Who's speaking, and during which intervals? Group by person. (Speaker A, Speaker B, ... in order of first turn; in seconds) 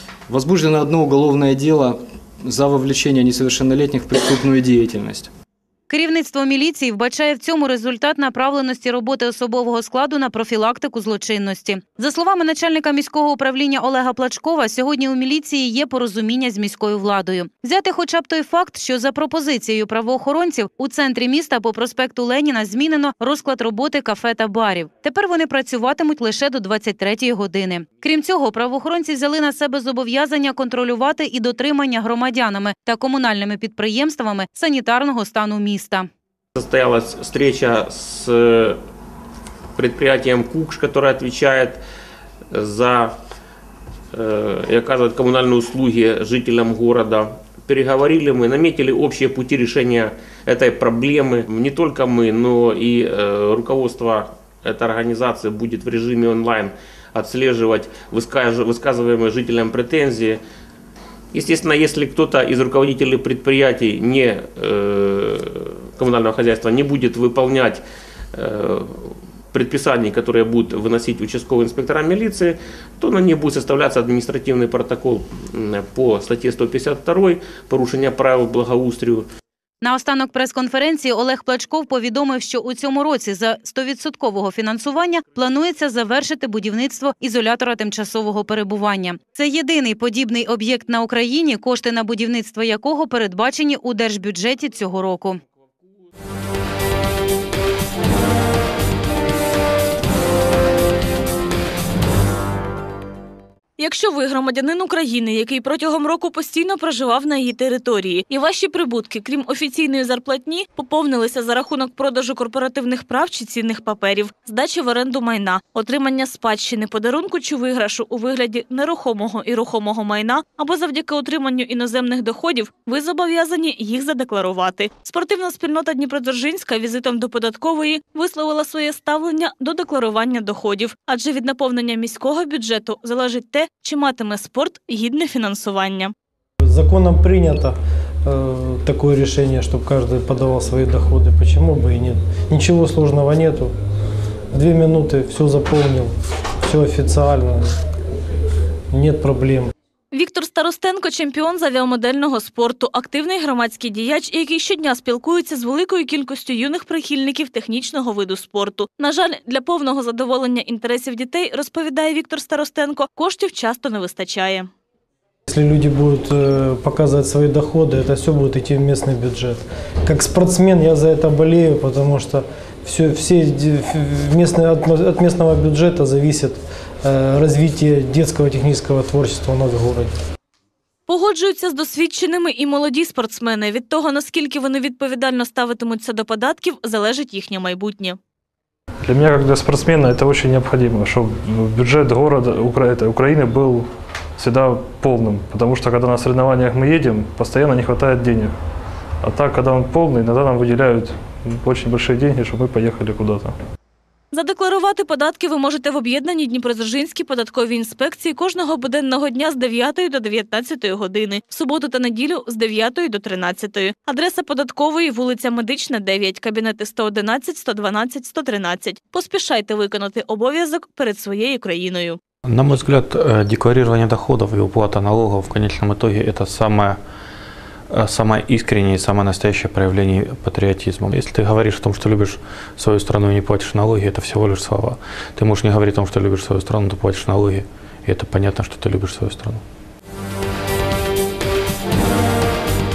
Speaker A: 0.3-5.3
Speaker B: 5.9-36.1, 79.8-95.4
Speaker C: 36.6-38.8, 39.8-41.8, 42.5-43.1, 44.1-60.4, 61.3-67.8, 68.3-79.3
Speaker D: 103.8-136.1, 150.1-164.7, 181.1-188.2, 204.3-222.2
Speaker E: 136.6-143.7, 144.5-147.7, 148.9-149.7, 165.5-180.1
Speaker F: 189.0-198.5, 199.2-203.5
Speaker G: 222.4-227.0, 227.9-239.6